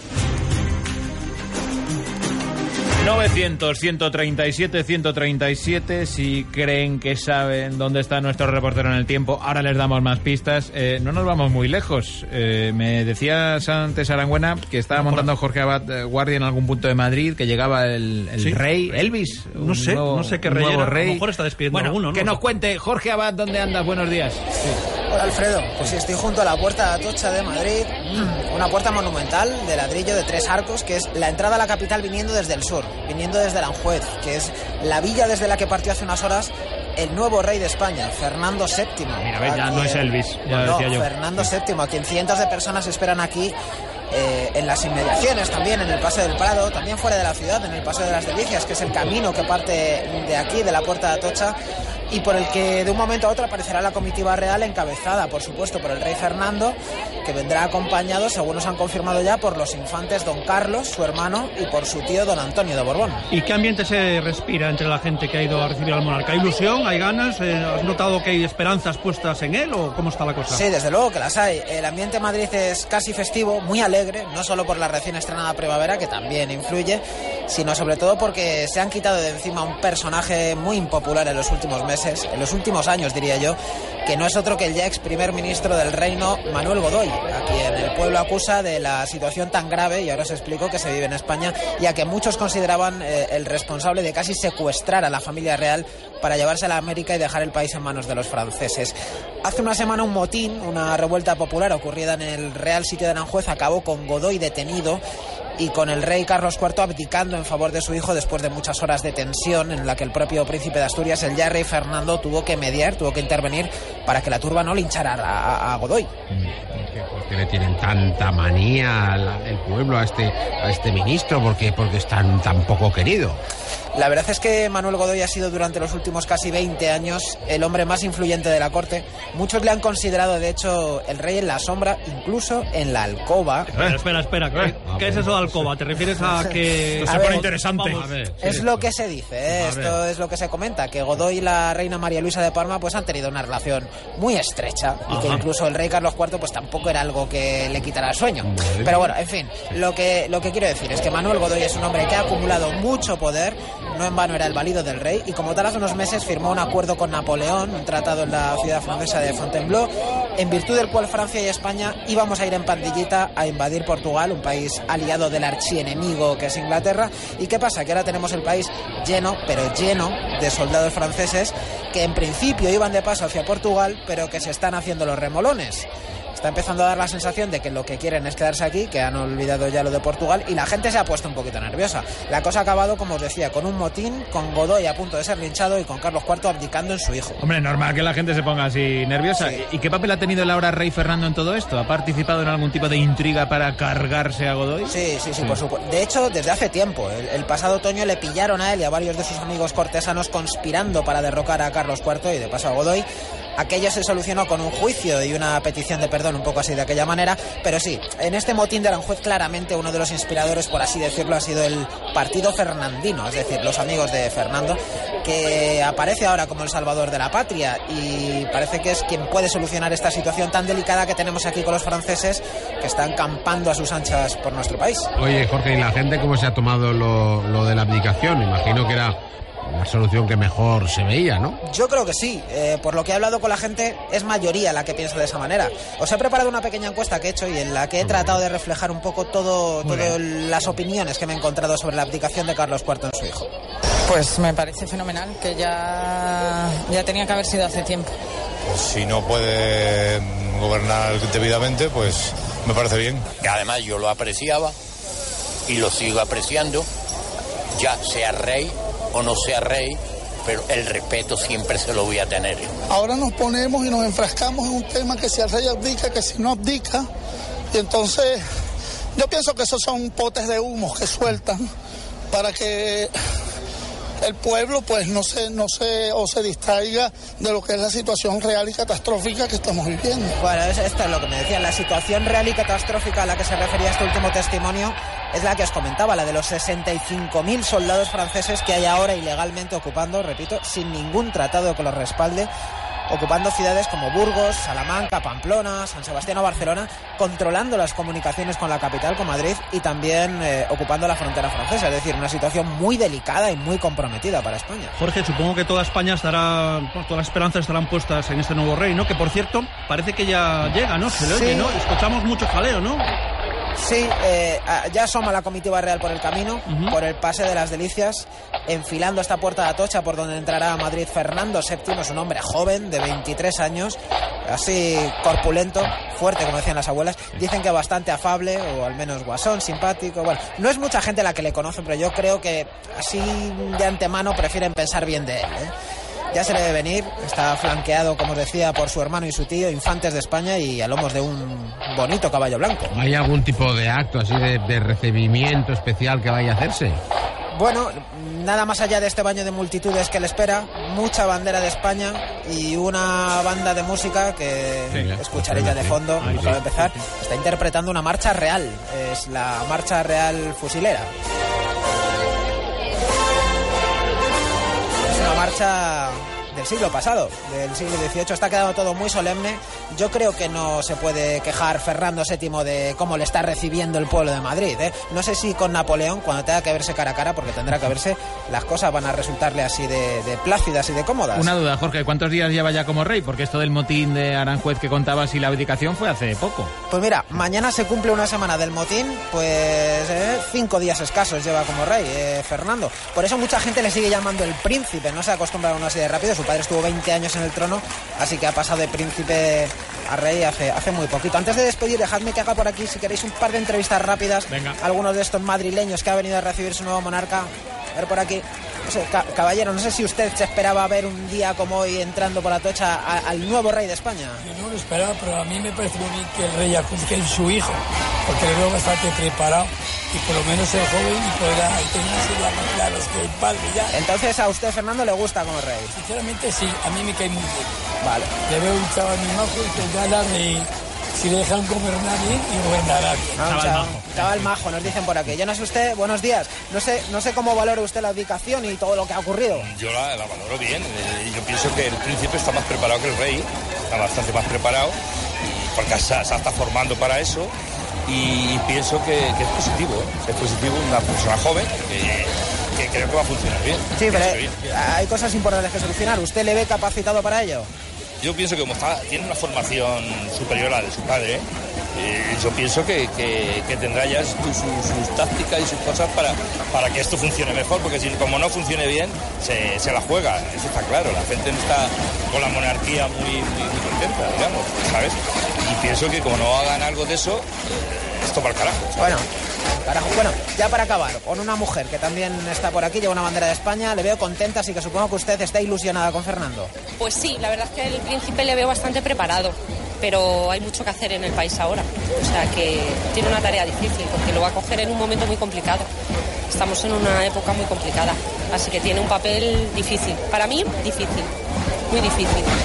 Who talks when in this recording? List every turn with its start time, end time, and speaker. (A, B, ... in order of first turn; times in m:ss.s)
0:03.0-0:24.7 A
0:14.9-0:15.3 B
0:19.5-0:22.4 B
0:25.1-0:43.6 C
0:39.2-0:41.5 A
0:44.1-0:51.6 C
0:52.1-1:03.3 C
1:03.3-1:10.6 B
1:10.5-1:45.0 C
1:45.6-1:56.1 C
1:56.7-2:03.4 D
2:04.0-2:13.7 C
2:13.7-2:18.6 B
2:14.8-2:15.7 D
2:17.0-2:18.6 A
2:17.0-2:17.5 C
2:18.0-2:18.6 D
2:18.4-3:07.4 C
2:19.5-2:20.0 A
2:25.1-2:25.4 B
2:28.4-2:29.1 D
3:07.4-3:15.6 A
3:09.4-3:09.6 C
3:14.9-3:45.1 C
3:45.2-3:51.6 D
3:51.6-4:03.5 C
3:58.0-3:58.4 D
3:59.8-4:00.2 A
4:04.1-4:08.1 E
4:08.8-4:13.2 F
4:13.4-4:14.8 G
4:15.7-4:16.9 G
4:17.8-4:22.8 G
4:22.9-4:27.1 H
4:27.7-4:28.4 H
4:29.2-4:31.6 H
4:32.3-4:33.1 H
4:34.2-4:40.3 H
4:40.4-4:52.5 C
4:53.1-5:04.9 C
5:05.0-5:13.1 B
5:11.2-5:11.8 C
5:13.8-5:35.7 C
5:16.7-5:17.0 B
5:36.3-5:42.9 C
5:42.9-5:47.0 D
5:47.5-6:01.1 C
5:54.9-5:56.6 D
5:56.2-5:57.0 A
6:05.1-6:21.5 C
6:21.4-6:26.7 A
6:26.9-6:54.4 C
6:44.5-6:44.8 A
6:54.6-6:57.7 I
6:58.3-7:03.8 I
7:03.9-7:06.0 C
7:06.1-7:07.6 I
7:08.0-7:08.3 C
7:08.5-7:10.6 I
7:11.2-7:13.3 I
7:13.4-7:19.7 C
7:13.4-7:14.9 A
7:19.5-7:27.5 J
7:28.1-7:34.7 J
7:34.0-7:37.7 C
7:38.2-7:59.2 J
7:59.0-7:59.3 C
7:59.8-8:06.7 C
8:07.0-8:15.8 K
8:16.5-8:21.3 K
8:21.9-8:22.5 K